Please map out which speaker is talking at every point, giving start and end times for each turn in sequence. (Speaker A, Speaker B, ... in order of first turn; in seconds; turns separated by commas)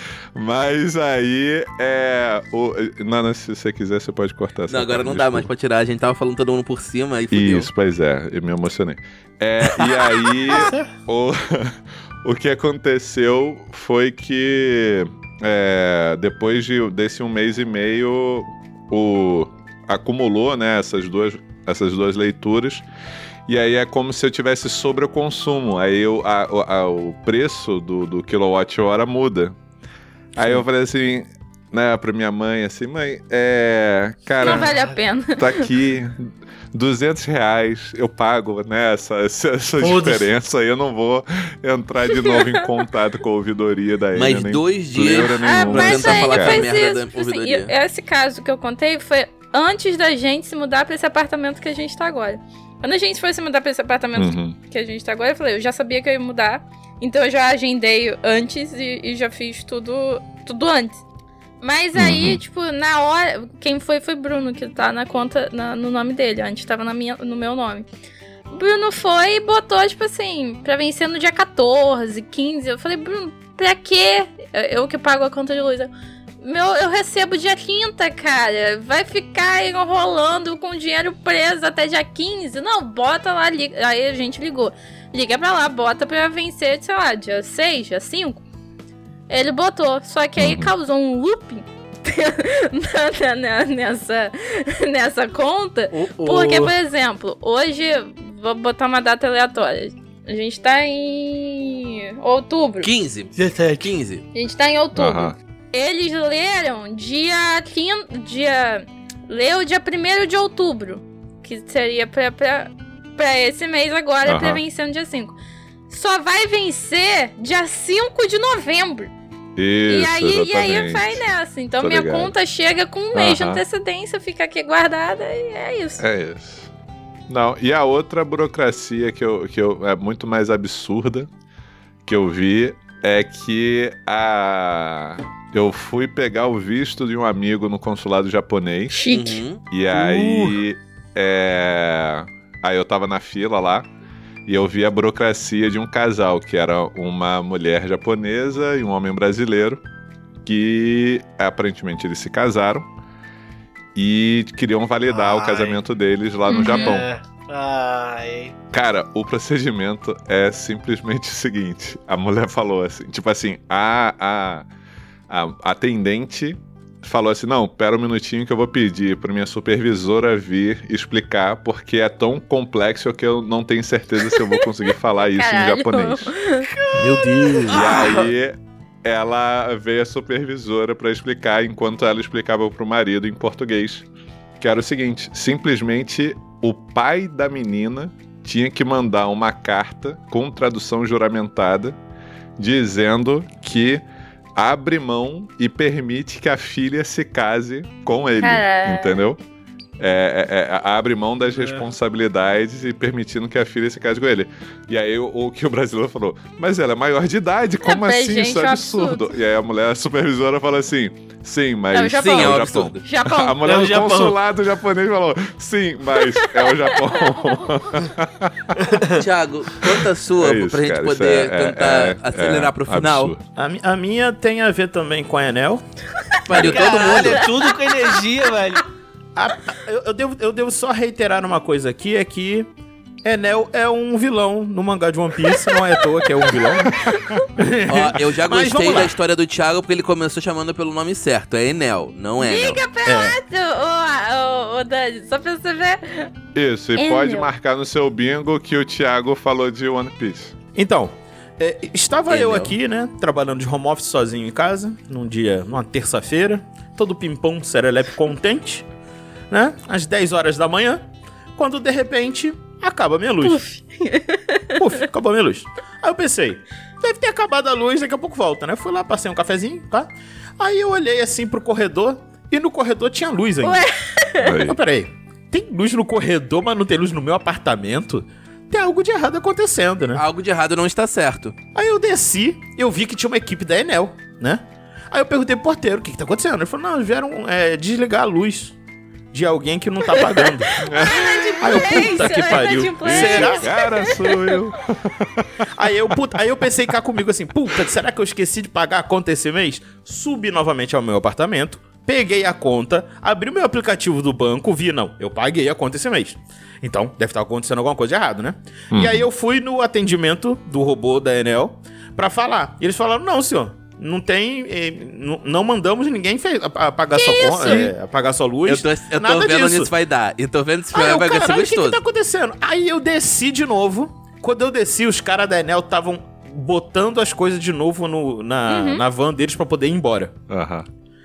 Speaker A: 0.3-5.5, Speaker B: 4.7-7.7, Speaker A: 7.3-22.9, Speaker C: 10.5-10.8, Speaker A: 23.5-29.6, Speaker A: 30.3-34.7, Speaker D: 34.4-35.6, Speaker C: 34.4-35.0, Speaker A: 35.3-46.6, Speaker C: 39.8-40.3, Speaker D: 42.1-42.6, Speaker B: 44.1-47.7, Speaker D: 45.4-61.0, Speaker A: 54.1-54.5, Speaker D: 61.6-67.9, Speaker A: 62.0-62.4, Speaker D: 68.5-88.4, Speaker D: 89.3-102.9, Speaker A: 90.4-90.7, Speaker C: 95.9-96.7, Speaker B: 102.8-104.2, Speaker C: 103.3-103.9, Speaker D: 104.3-115.3, Speaker A: 104.9-105.3, Speaker A: 114.2-114.6, Speaker D: 115.9-119.1, Speaker A: 119.5-121.2, Speaker D: 119.9-126.0, Speaker A: 121.8-122.3, Speaker A: 123.1-123.6, Speaker A: 126.0-126.7, Speaker A: 127.3-131.3, Speaker A: 132.0-139.0, Speaker D: 138.9-139.4, Speaker B: 139.1-139.6, Speaker A: 139.7-143.9, Speaker C: 139.9-140.6, Speaker A: 144.4-149.8, Speaker A: 150.4-152.9, Speaker A: 153.9-157.1, Speaker C: 155.1-155.8, Speaker D: 156.5-157.0, Speaker C: 156.6-158.5, Speaker A: 158.7-164.7, Speaker A: 165.3-176.3, Speaker D: 174.3-174.6, Speaker D: 175.2-176.7, Speaker C: 176.7-178.2, Speaker E: 176.9-178.1, Speaker A: 177.7-184.1, Speaker D: 177.7-178.1, Speaker A: 184.6-192.0, Speaker A: 192.6-194.0, Speaker A: 194.6-199.4, Speaker D: 198.4-199.2, Speaker A: 200.0-218.8, Speaker D: 207.8-209.3, Speaker D: 211.9-213.6, Speaker B: 212.2-213.0, Speaker C: 213.6-214.4, Speaker D: 216.2-217.2, Speaker C: 218.8-219.2, Speaker B: 219.2-223.3, Speaker A: 220.4-223.4, Speaker E: 223.5-225.8, Speaker B: 226.4-227.5, Speaker A: 226.5-226.9, Speaker C: 226.5-228.8, Speaker E: 229.3-232.7, Speaker E: 233.2-239.1, Speaker D: 235.5-237.4, Speaker B: 237.9-242.8, Speaker D: 242.4-246.3, Speaker E: 243.0-243.4, Speaker A: 246.5-250.6, Speaker D: 246.9-247.5, Speaker E: 250.7-258.9, Speaker B: 252.3-252.7, Speaker E: 259.5-263.6, Speaker D: 263.4-265.0, Speaker E: 264.8-273.9, Speaker D: 273.6-274.5, Speaker A: 274.4-274.8, Speaker E: 274.6-280.2, Speaker B: 280.1-281.6, Speaker E: 281.7-288.8, Speaker E: 289.3-290.9, Speaker D: 290.1-294.6, Speaker A: 290.8-291.3, Speaker E: 291.6-293.7, Speaker A: 293.0-296.1, Speaker E: 295.7-319.9, Speaker A: 308.9-309.3, Speaker D: 317.1-317.9, Speaker A: 317.6-317.9, Speaker B: 318.6-322.0, Speaker E: 320.9-330.4, Speaker D: 328.7-329.0, Speaker A: 330.5-330.9